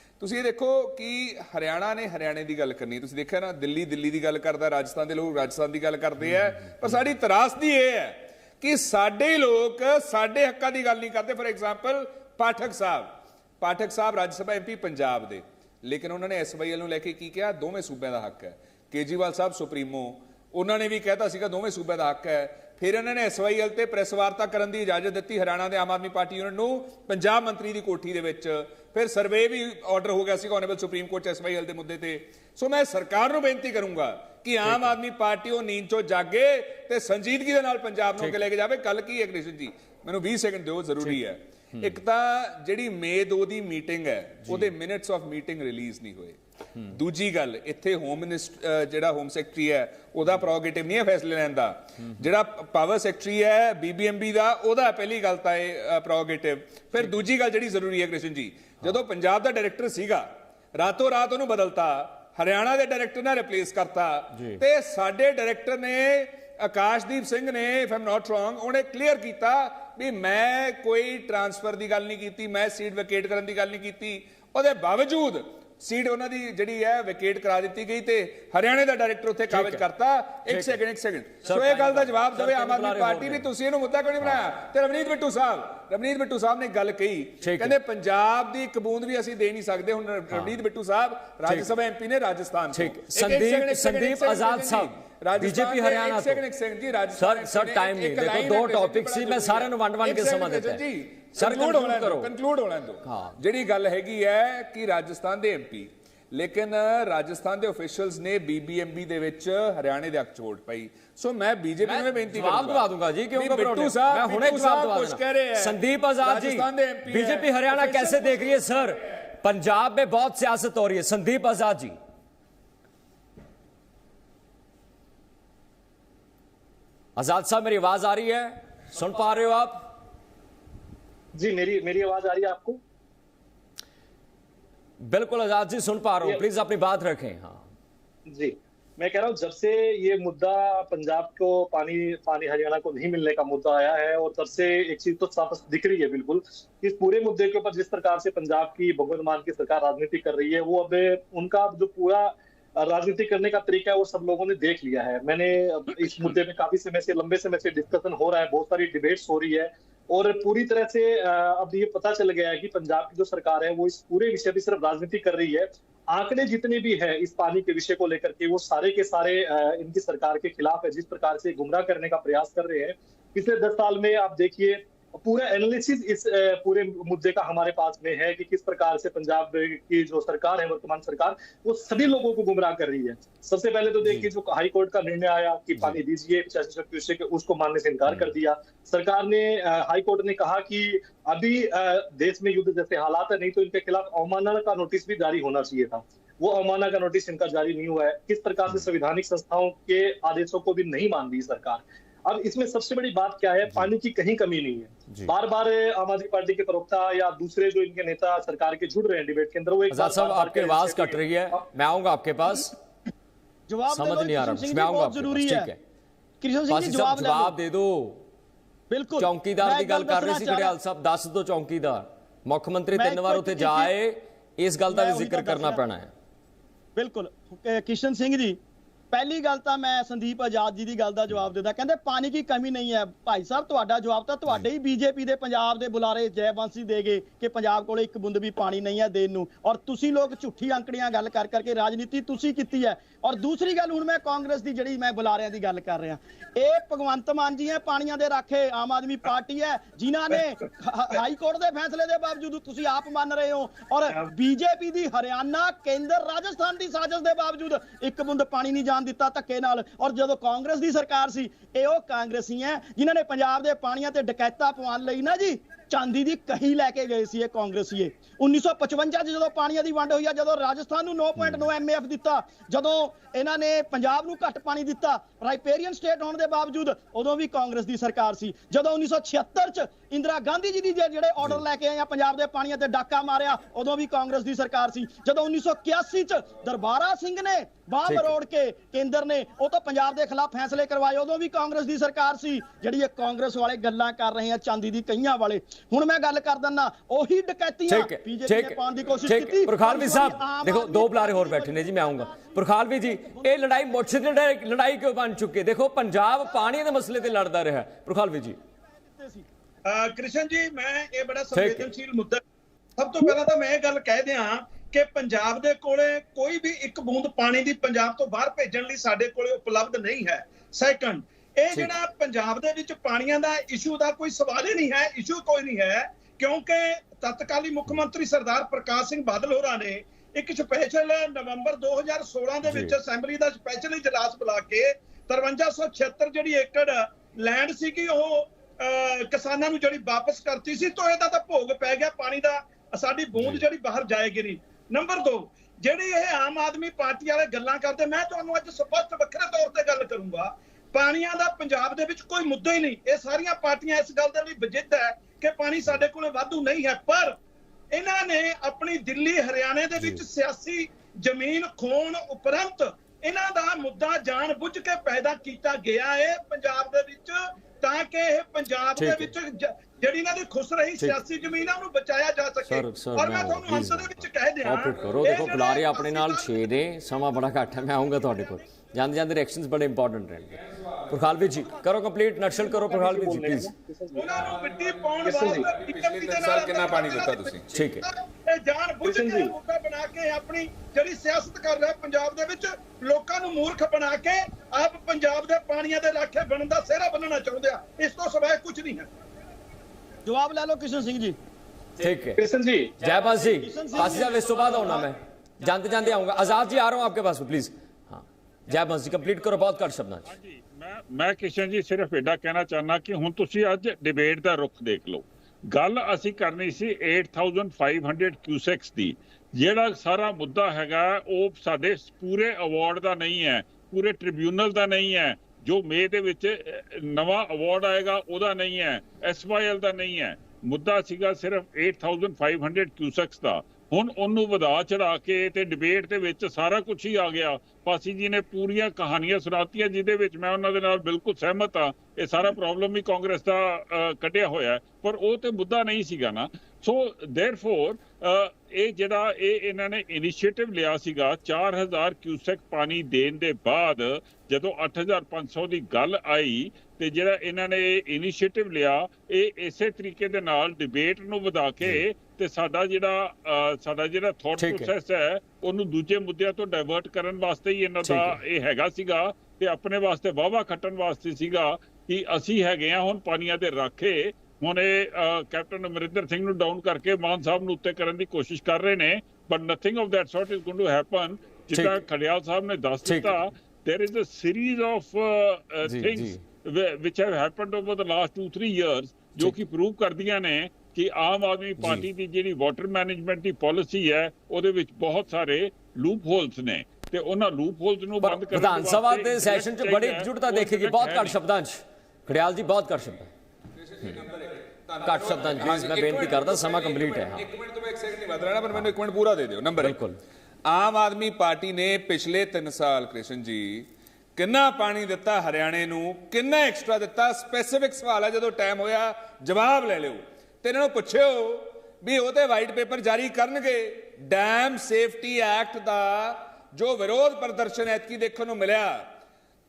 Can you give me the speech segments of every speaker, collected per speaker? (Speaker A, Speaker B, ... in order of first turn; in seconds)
Speaker A: 0.2-118.8, 380.5-381.7, 384.3-387.7, 503.8-510.0, 510.6-529.1
Speaker B: 34.6-34.9, 38.2-38.5, 64.3-64.6, 79.5-79.8, 80.5-80.8, 81.4-83.5, 87.4-87.8, 92.7-96.4, 97.2-100.8, 101.3-102.3, 103.0-103.4, 111.8-122.0, 127.2-129.8, 135.0-137.7, 209.9-212.7, 213.9-215.8, 216.7-218.2, 219.2-226.1, 271.4-271.7, 288.1-288.3, 297.9-308.6, 311.5-311.9, 332.6-332.9, 369.0-369.3, 372.6-383.7, 387.7-388.1, 402.0-402.4, 403.0-410.3, 464.6-464.9, 468.0-468.4, 481.7-482.0, 483.0-483.4, 485.9-486.4, 491.8-492.1, 498.2-503.3, 505.0-507.5, 509.8-510.2
Speaker C: 131.3-132.8, 138.3-211.6, 382.4-384.5, 385.2-385.7, 389.0-389.5, 402.4-403.4
Speaker D: 213.7-215.7, 216.4-217.6, 218.9-220.8, 222.9-223.9, 224.9-225.8, 226.9-228.6, 229.1-303.9, 308.8-309.5, 400.2-401.4, 403.5-405.1
Speaker E: 309.9-312.4, 313.0-357.4, 357.9-376.7, 384.1-399.1
Speaker F: 410.2-501.4